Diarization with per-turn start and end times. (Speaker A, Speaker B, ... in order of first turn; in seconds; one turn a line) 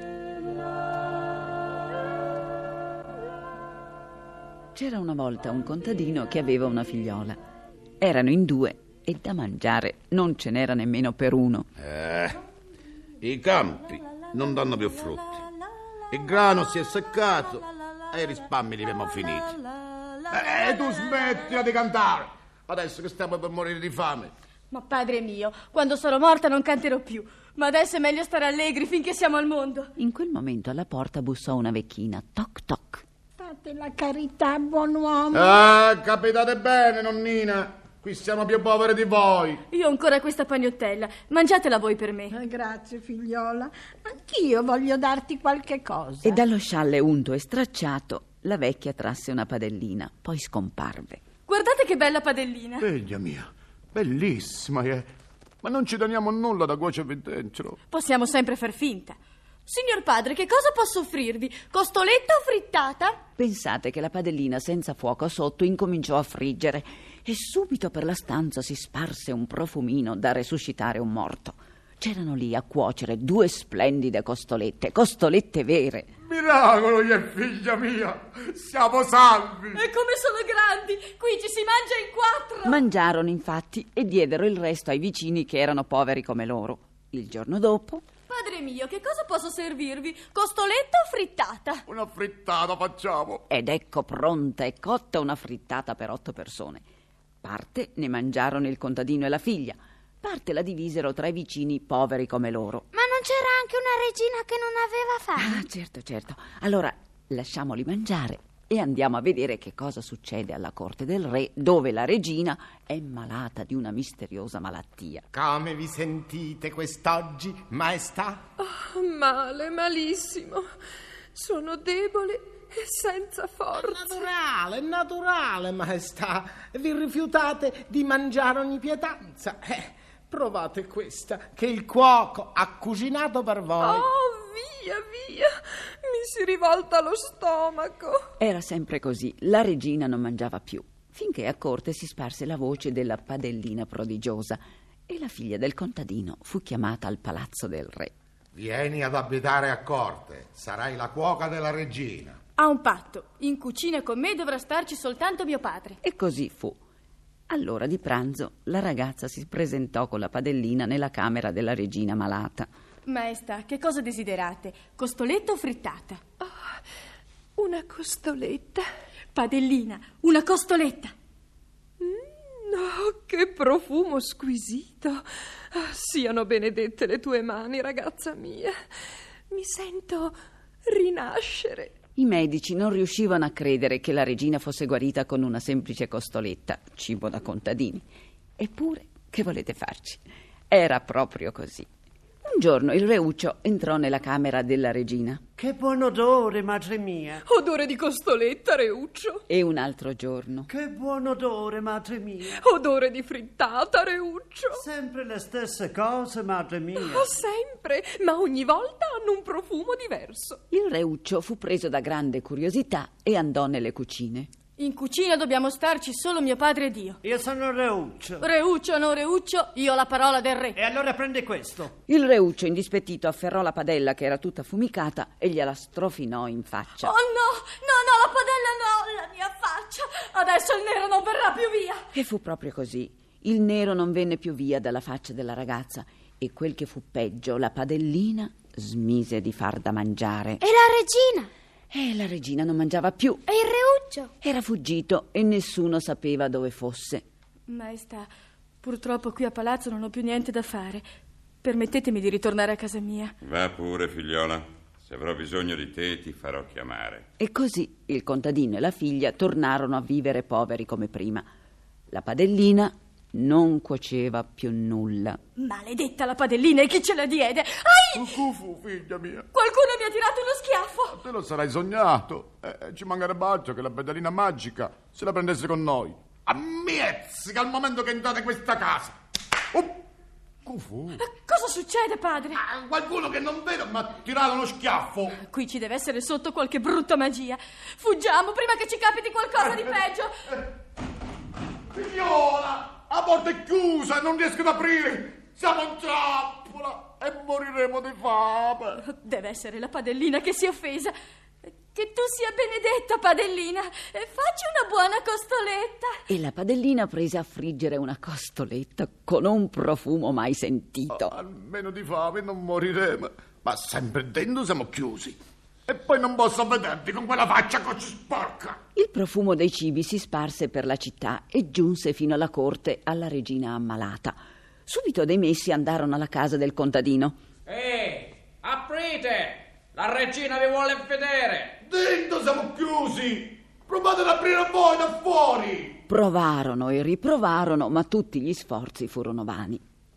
Speaker A: 4.7-7.4
Speaker A: 8.0-11.7
Speaker B: 11.8-12.3
Speaker B: 13.2-15.4
Speaker B: 16.1-19.6
Speaker B: 20.3-24.3
Speaker C: 24.7-29.9
Speaker A: 30.0-33.0
Speaker D: 33.4-35.6
Speaker B: 35.3-39.6
Speaker C: 39.7-42.3
Speaker D: 42.3-46.3
Speaker A: 46.2-51.2
Speaker C: 51.5-52.9
Speaker B: 52.8-55.1
Speaker B: 55.6-57.8
Speaker C: 57.9-63.2
Speaker A: 63.4-76.1
Speaker B: 76.2-79.8
Speaker C: 79.7-82.8
Speaker A: 82.6-88.0
Speaker C: 88.3-91.8
Speaker B: 91.9-93.4
Speaker A: 93.5-96.8
Speaker A: 97.4-102.8
Speaker E: 102.9-105.6
Speaker A: 105.4-115.2
Speaker F: 115.3-118.4
Speaker G: 118.6-120.7
Speaker G: 121.3-124.3
Speaker F: 123.8-134.0
Speaker G: 133.8-135.5
Speaker G: 136.0-138.2
Speaker A: 138.4-148.1
Speaker H: 148.5-152.4
Speaker C: 152.6-156.0
Speaker A: 156.0-156.8
Speaker A: 157.5-162.7
Speaker C: 163.1-166.2
Speaker G: 166.4-166.7
Speaker G: 167.6-168.8
Speaker C: 169.3-171.1
Speaker G: 172.0-178.8
Speaker G: 179.5-180.3
Speaker G: 180.9-181.9
Speaker A: 182.2-188.0
Speaker A: 188.6-191.9
Speaker A: 192.4-195.4
Speaker I: 195.6-197.4
Speaker G: 197.4-199.4
Speaker A: 199.5-200.7
Speaker I: 200.7-202.6
Speaker G: 202.5-204.8
Speaker I: 204.8-207.2
Speaker G: 206.9-210.6
Speaker A: 210.7-214.5
Speaker C: 214.8-217.2
Speaker I: 217.2-218.4
Speaker C: 218.4-220.8
Speaker I: 220.8-221.9
Speaker A: 222.1-227.1
Speaker C: 227.0-232.0
Speaker A: 232.1-240.6
Speaker E: 240.6-241.5
Speaker A: 241.9-243.4
Speaker E: 243.5-244.3
Speaker A: 244.4-247.2
Speaker C: 247.7-248.3
Speaker C: 248.8-251.0
Speaker C: 251.6-253.3
Speaker J: 253.4-257.2
Speaker A: 257.4-261.5
Speaker A: 262.1-265.4
Speaker C: 265.6-268.4
Speaker B: 268.1-269.5
Speaker C: 269.5-271.2
Speaker B: 271.1-279.2
Speaker B: 279.7-280.0
Speaker B: 280.7-281.2
Speaker C: 281.2-282.6
Speaker B: 282.6-285.4
Speaker C: 285.4-290.3
Speaker B: 291.9-299.0
Speaker C: 299.0-306.2
Speaker A: 306.3-311.4
Speaker B: 311.1-315.4
Speaker B: 315.9-318.8
Speaker A: 318.9-327.4
Speaker K: 327.6-331.8
Speaker B: 331.8-336.0
Speaker A: 336.1-339.8